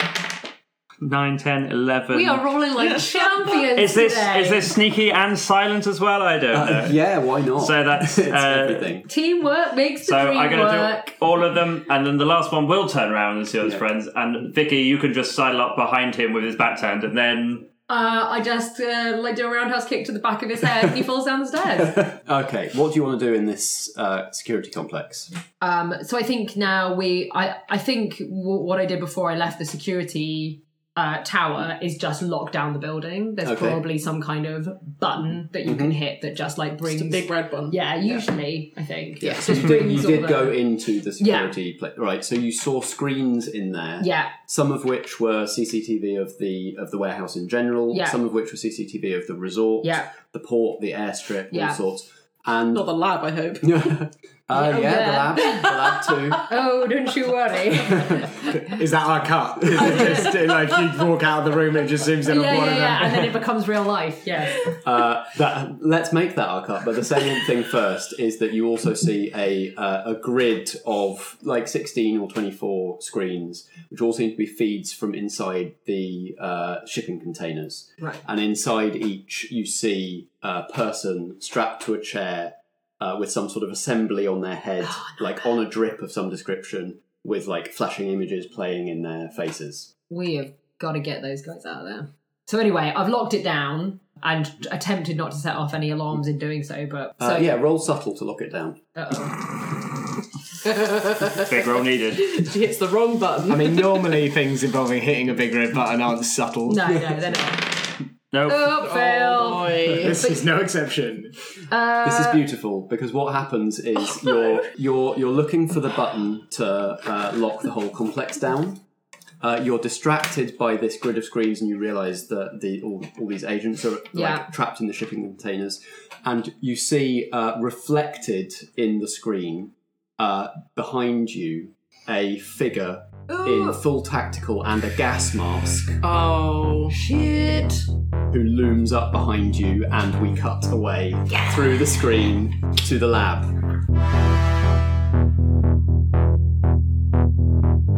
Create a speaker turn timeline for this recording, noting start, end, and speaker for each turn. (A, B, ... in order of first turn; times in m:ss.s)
0:01.0-0:02.4 A
0:02.1-0:04.7 B
0:03.7-0:07.0 A
0:06.5-0:09.1 C
0:07.5-0:08.9 A
0:09.1-0:11.1 B
0:10.0-0:17.7 A
0:17.9-0:22.1 B
0:21.9-0:25.3 C
0:25.6-0:40.7 B
0:33.4-0:33.8 C
0:35.6-0:36.0 C
0:36.8-0:37.9 D
0:39.2-0:52.9 C
0:41.2-0:41.5 B
0:44.0-0:44.3 B
0:47.9-0:48.2 B
0:49.8-0:50.1 B
0:51.5-0:51.8 B
0:52.7-0:53.7 D
0:53.6-0:56.5 C
0:54.5-0:58.7 B
0:57.9-0:58.2 C
0:58.6-1:03.4 E
0:59.8-1:00.4 B
1:02.2-1:04.8 B
1:04.7-1:29.9 C
1:24.8-1:25.6 B
1:30.1-1:37.6 B
1:37.2-1:38.8 C
1:39.0-1:39.4 B
1:40.6-1:41.5 D
1:41.4-1:42.3 A
1:42.2-1:44.2 D
1:43.5-1:47.3 E
1:46.7-1:47.8 B
1:48.3-1:48.7 A
1:48.4-1:50.4 B
1:48.8-1:50.2 D
1:50.0-1:51.3 E
1:51.7-1:52.5 B
1:52.0-1:58.8 C
1:59.4-2:16.0 C
2:04.1-2:04.5 B
2:13.3-2:13.8 B
2:16.0-2:17.0 D
2:16.9-2:17.8 B
2:18.3-2:23.5 C
2:21.3-2:21.7 B